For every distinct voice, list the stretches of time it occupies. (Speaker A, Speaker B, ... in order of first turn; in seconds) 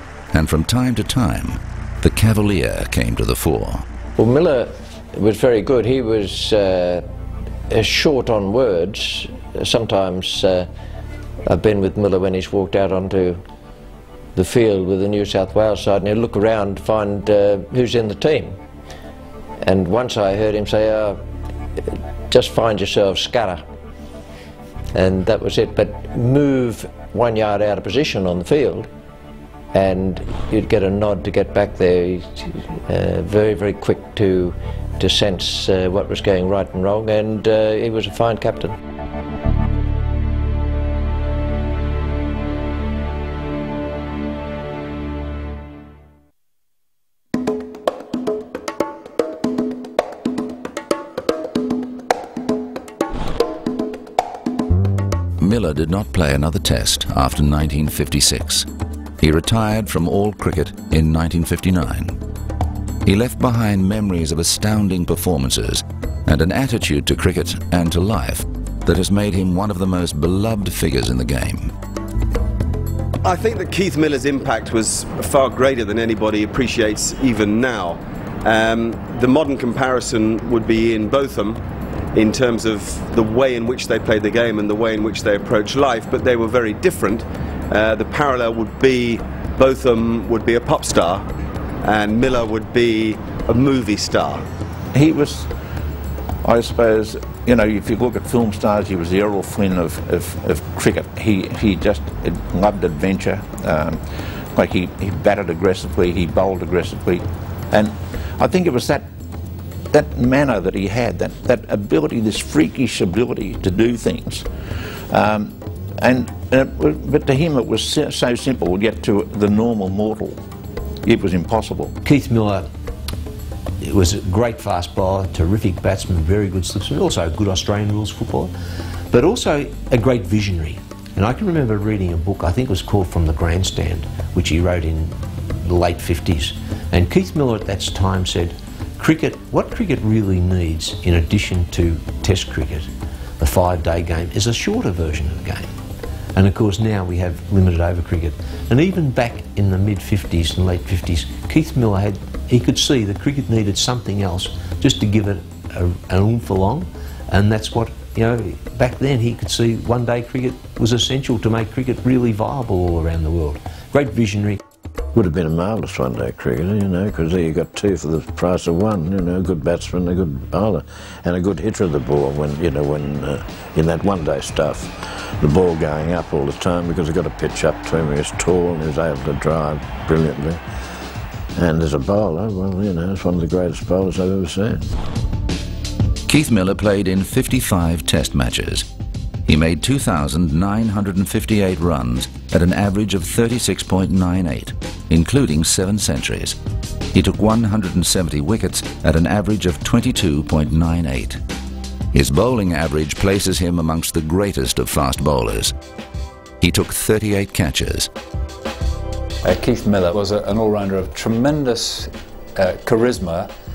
Speaker A: 0.3-3.8, 55.4-58.7, 59.2-62.2, 63.0-71.7, 186.3-188.8, 189.5-196.6, 197.1-201.4, 202.1-205.7, 206.6-208.1
Speaker B: 4.2-7.0, 7.7-10.7, 11.4-13.4, 14.3-18.6, 19.6-21.2, 21.8-23.6, 24.9-28.9, 29.7-38.8
Speaker C: 73.2-81.6, 82.1-91.2, 91.8-94.5
Speaker D: 94.9-95.5, 96.4-109.1, 109.9-114.5, 115.1-120.4, 121.0-121.9
Speaker E: 122.0-122.7, 123.8-128.5, 129.1-145.7, 146.3-164.6
Speaker F: 165.1-180.6, 181.6-184.8
Speaker G: 209.4-213.5